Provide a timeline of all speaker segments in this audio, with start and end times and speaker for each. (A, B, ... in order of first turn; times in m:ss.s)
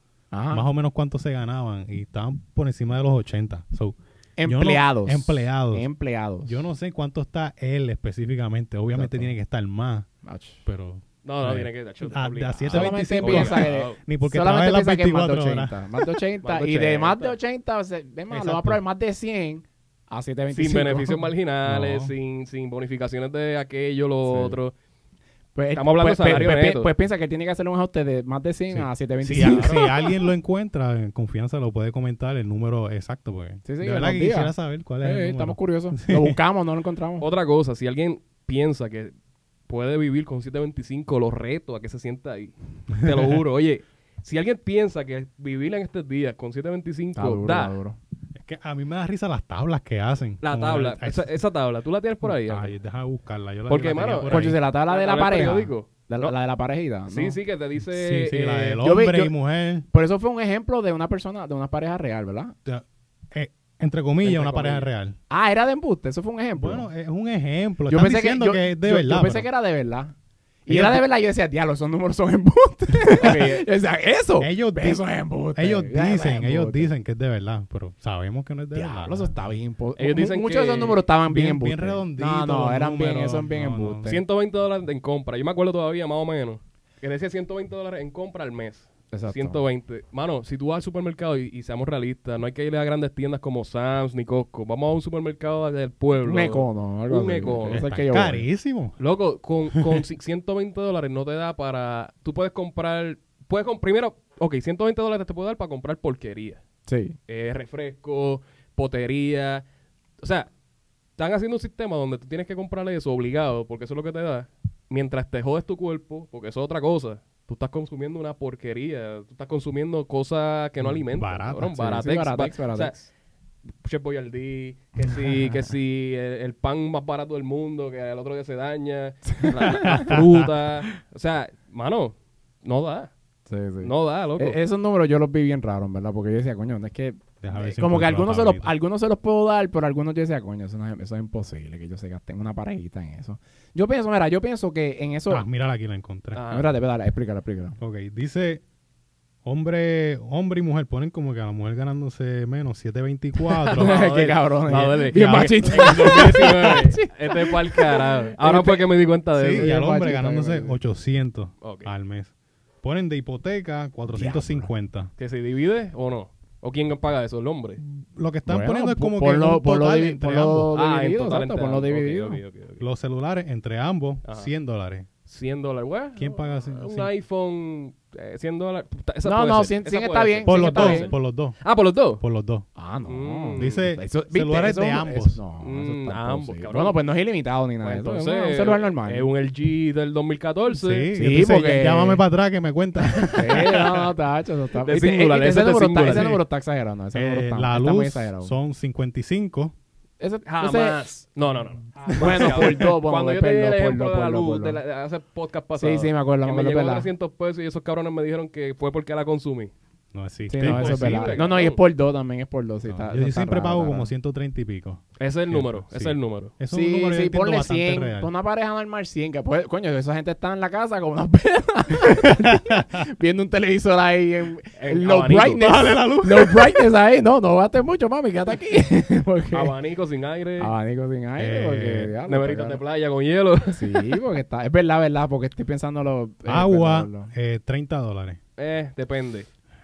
0:00.3-0:00.6 A
0:00.5-0:05.9 B
0:04.4-0:06.6 A
0:06.4-0:10.1 B
0:08.9-0:09.3 A
0:10.2-0:10.6 A
0:10.7-0:16.2 B
0:11.2-0:14.0 C
0:12.7-0:21.2 A
0:16.4-0:17.4 C
0:18.3-0:18.8 B
0:20.5-0:24.7 C
0:21.6-0:22.1 B
0:24.3-0:24.6 A
0:25.6-0:29.9 A
0:25.8-0:26.9 C
0:28.7-0:36.4 B
0:29.4-0:29.8 C
0:33.7-0:37.3 A
0:37.2-0:39.1 C
0:39.7-0:47.8 C
0:43.0-0:43.4 B
0:47.2-0:48.0 A
0:48.4-0:51.3 B
0:50.4-0:52.7 C
0:52.2-0:54.6 B
0:53.7-0:56.3 C
0:54.3-0:57.4 A
0:57.1-0:58.8 C
0:57.9-0:59.9 B
0:58.8-0:59.3 A
0:59.9-1:02.6 A
1:02.7-1:05.2 B
1:04.2-1:04.9 C
1:05.3-1:06.9 A
1:06.6-1:09.5 B
1:07.9-1:10.1 A
1:10.7-1:16.9 A
1:10.7-1:11.0 B
1:13.1-1:13.6 C
1:14.4-1:19.4 B
1:18.7-1:24.2 A
1:20.0-1:21.0 C
1:21.3-1:24.1 B
1:24.1-1:37.8 C
1:29.1-1:29.6 A
1:36.2-1:38.5 A
1:37.7-1:39.0 B
1:39.0-1:46.6 C
1:39.7-1:40.0 B
1:46.9-1:47.2 A
1:47.3-1:49.6 C
1:50.2-1:50.5 C
1:51.2-2:03.1 C
2:00.8-2:02.0 B
2:01.7-2:02.9 A
2:03.8-2:13.1 C
2:09.4-2:10.1 A
2:09.7-2:10.5 B
2:13.5-2:25.5 A
2:13.8-2:14.6 C
2:17.4-2:18.7 B
2:25.3-2:26.5 B
2:26.4-2:26.7 C
2:26.5-2:27.8 A
2:27.8-2:28.6 B
2:29.4-2:34.0 B
2:33.7-2:38.9 A
2:33.7-2:39.7 C
2:35.0-2:36.4 B
2:39.4-2:42.3 B
2:39.6-2:40.8 A
2:41.6-2:41.9 C
2:42.8-2:45.1 B
2:44.1-2:44.7 A
2:45.2-2:47.8 C
2:47.8-2:50.7 B
2:48.5-2:52.4 A
2:50.8-2:52.8 C
2:52.8-2:55.1 B
2:54.2-2:54.5 C
2:55.3-3:02.2 C
2:56.2-2:57.1 B
2:59.2-3:01.1 A
3:00.5-3:01.6 B
3:02.2-3:02.7 B
3:02.8-3:09.3 A
3:03.1-3:03.9 C
3:03.6-3:05.4 B
3:05.6-3:07.0 C
3:07.8-3:11.1 C
3:10.7-3:14.1 B
3:11.2-3:12.2 A
3:13.3-3:18.5 A
3:14.8-3:16.4 C
3:17.1-3:19.7 B
3:20.2-3:21.2 A
3:20.5-3:29.7 C
3:22.1-3:24.8 A
3:22.1-3:22.7 B
3:25.8-3:27.1 A
3:30.1-3:31.5 B
3:30.5-3:34.1 A
3:30.6-3:31.8 C
3:32.9-3:38.3 B
3:35.2-3:36.5 C
3:36.7-3:49.8 A
3:42.4-3:42.8 B
3:44.8-3:45.6 C
3:45.6-3:46.8 B
3:49.5-3:50.7 C
3:50.6-3:52.8 A
3:51.4-3:52.1 B
3:52.3-3:54.2 C
3:53.7-3:57.3 A
3:56.5-3:58.4 B
3:58.6-3:59.5 C